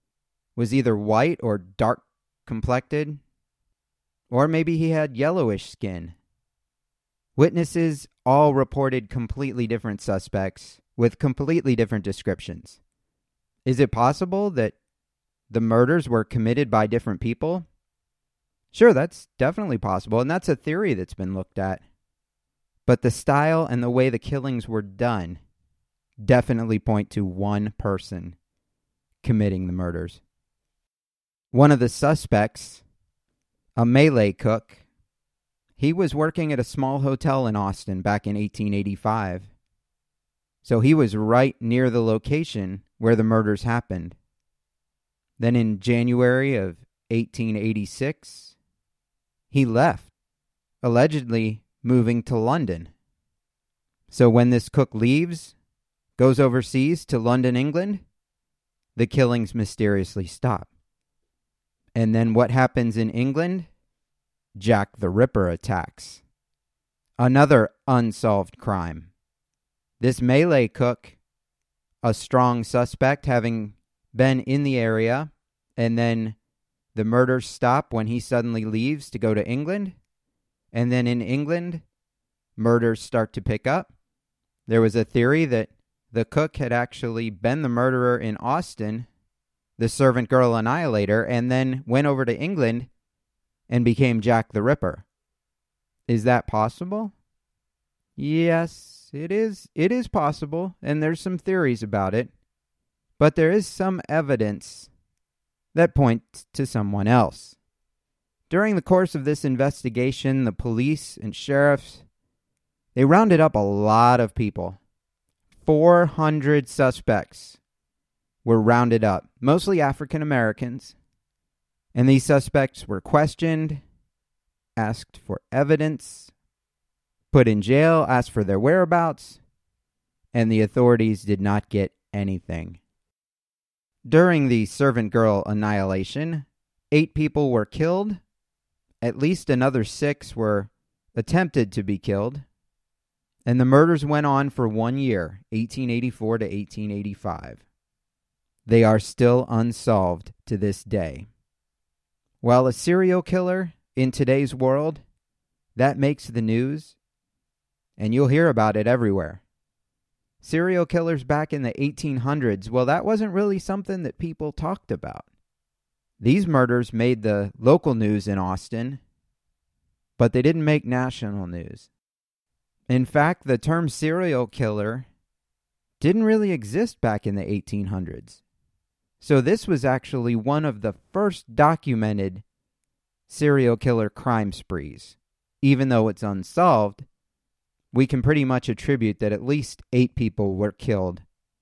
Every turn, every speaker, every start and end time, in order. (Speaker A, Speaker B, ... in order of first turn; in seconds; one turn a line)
Speaker A: 0.6-3.2
Speaker A: 4.3-6.2
Speaker A: 7.3-12.8
Speaker A: 13.6-14.8
Speaker A: 15.5-17.6
Speaker A: 18.7-21.8
Speaker A: 22.8-25.4
Speaker A: 26.2-28.4
Speaker A: 29.2-30.2
Speaker A: 31.5-32.8
Speaker A: 33.8-34.8
Speaker A: 35.8-39.5
Speaker A: 40.6-44.1
Speaker A: 45.4-48.5
Speaker A: 49.5-50.1
Speaker A: 50.8-52.9
Speaker A: 54.1-55.5
Speaker A: 56.2-58.0
Speaker A: 58.9-60.7
Speaker A: 61.9-63.7
Speaker A: 64.5-66.2
Speaker A: 67.2-69.1
Speaker A: 70.0-71.2
Speaker A: 72.0-76.3
Speaker A: 76.9-80.0
Speaker A: 80.7-81.8
Speaker A: 82.6-83.9
Speaker A: 84.7-89.1
Speaker A: 89.8-92.9
Speaker A: 93.7-95.0
Speaker A: 96.1-97.1
Speaker A: 98.2-102.3
Speaker A: 103.2-104.9
Speaker A: 105.7-107.5
Speaker A: 108.5-112.0
Speaker A: 112.9-114.8
Speaker A: 115.6-117.6
Speaker A: 118.4-121.0
Speaker A: 121.9-123.8
Speaker A: 124.8-126.3
Speaker A: 127.3-129.4
Speaker A: 130.3-132.8
Speaker A: 134.0-138.2
Speaker A: 139.0-142.4
Speaker A: 143.4-147.6
Speaker A: 148.7-151.3
Speaker A: 152.4-155.0
Speaker A: 155.8-156.9
Speaker A: 158.0-159.4
Speaker A: 160.4-165.3
Speaker A: 166.2-169.0
Speaker A: 170.2-171.9
Speaker A: 172.9-175.1
Speaker A: 176.0-178.4
Speaker A: 179.2-182.4
Speaker A: 183.3-187.1
Speaker A: 187.9-191.2